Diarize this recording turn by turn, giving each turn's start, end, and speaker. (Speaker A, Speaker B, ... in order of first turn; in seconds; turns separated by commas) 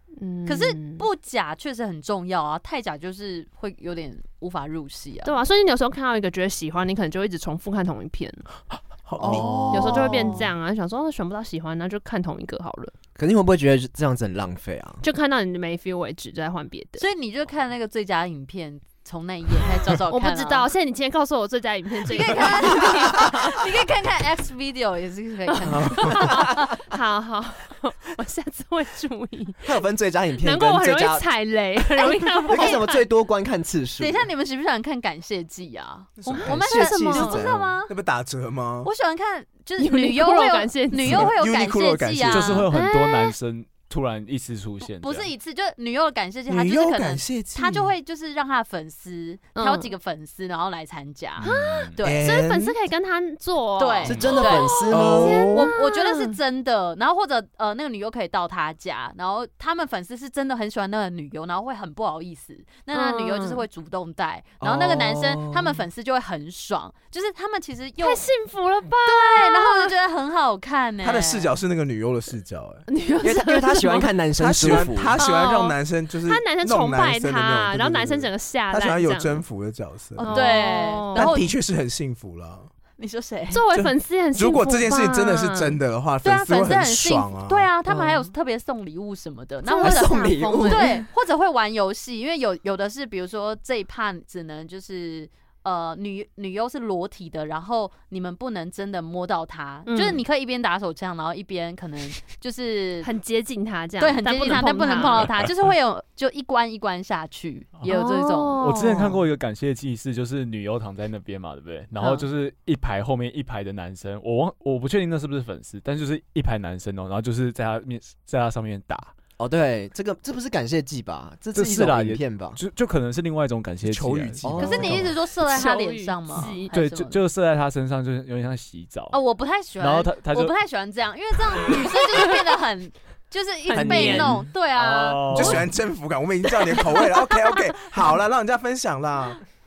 Speaker A: 0.2-1.1, Speaker B: 0.5-5.4, Speaker A: 5.2-8.5, Speaker C: 8.8-9.9, Speaker D: 9.2-10.1, Speaker A: 9.3-12.9, Speaker B: 9.4-10.5, Speaker D: 13.2-15.0, Speaker A: 15.0-17.0, Speaker B: 17.0-20.7, Speaker A: 20.1-23.6, Speaker B: 22.1-26.7, Speaker A: 25.5-29.8, Speaker C: 25.7-26.3, Speaker D: 29.6-31.2, Speaker A: 30.4-33.0, Speaker B: 32.0-33.0, Speaker D: 32.5-34.3, Speaker B: 34.0-37.9, Speaker C: 36.2-36.5, Speaker A: 36.3-37.4, Speaker D: 36.4-37.7, Speaker C: 37.9-38.9, Speaker B: 38.8-42.7, Speaker A: 39.8-41.3, Speaker C: 40.9-42.7, Speaker E: 42.2-45.3, Speaker A: 42.7-43.3, Speaker B: 44.8-52.3, Speaker C: 46.5-47.9, Speaker A: 49.5-49.9, Speaker E: 51.4-52.0, Speaker A: 51.4-56.4, Speaker C: 52.0-52.8, Speaker B: 53.8-68.2, Speaker D: 54.0-55.5, Speaker E: 54.0-54.5, Speaker C: 54.9-55.7, Speaker A: 62.9-63.6, Speaker D: 64.6-65.9, Speaker A: 68.0-69.9, Speaker B: 69.0-71.5, Speaker C: 71.0-72.8, Speaker A: 72.9-79.4, Speaker D: 73.2-75.2, Speaker C: 74.4-80.5, Speaker A: 80.2-81.4, Speaker B: 80.2-81.5, Speaker C: 81.1-82.7, Speaker B: 83.0-83.6, Speaker A: 83.5-85.8, Speaker C: 83.7-87.7, Speaker B: 86.2-103.1, Speaker D: 87.9-88.3, Speaker A: 89.6-91.0, Speaker D: 89.8-90.9, Speaker A: 99.9-100.2, Speaker A: 103.0-105.3, Speaker B: 104.0-109.2, Speaker A: 107.9-109.1, Speaker E: 108.5-119.1, Speaker B: 112.0-112.3, Speaker D: 119.4-122.6, Speaker E: 121.5-125.0, Speaker C: 123.8-125.1, Speaker D: 124.4-125.1, Speaker B: 124.6-127.2, Speaker A: 125.4-126.7, Speaker E: 126.7-129.2, Speaker B: 129.1-135.7, Speaker E: 129.8-130.6, Speaker A: 133.7-134.4, Speaker D: 133.7-134.4, Speaker E: 133.8-135.7, Speaker C: 135.3-139.4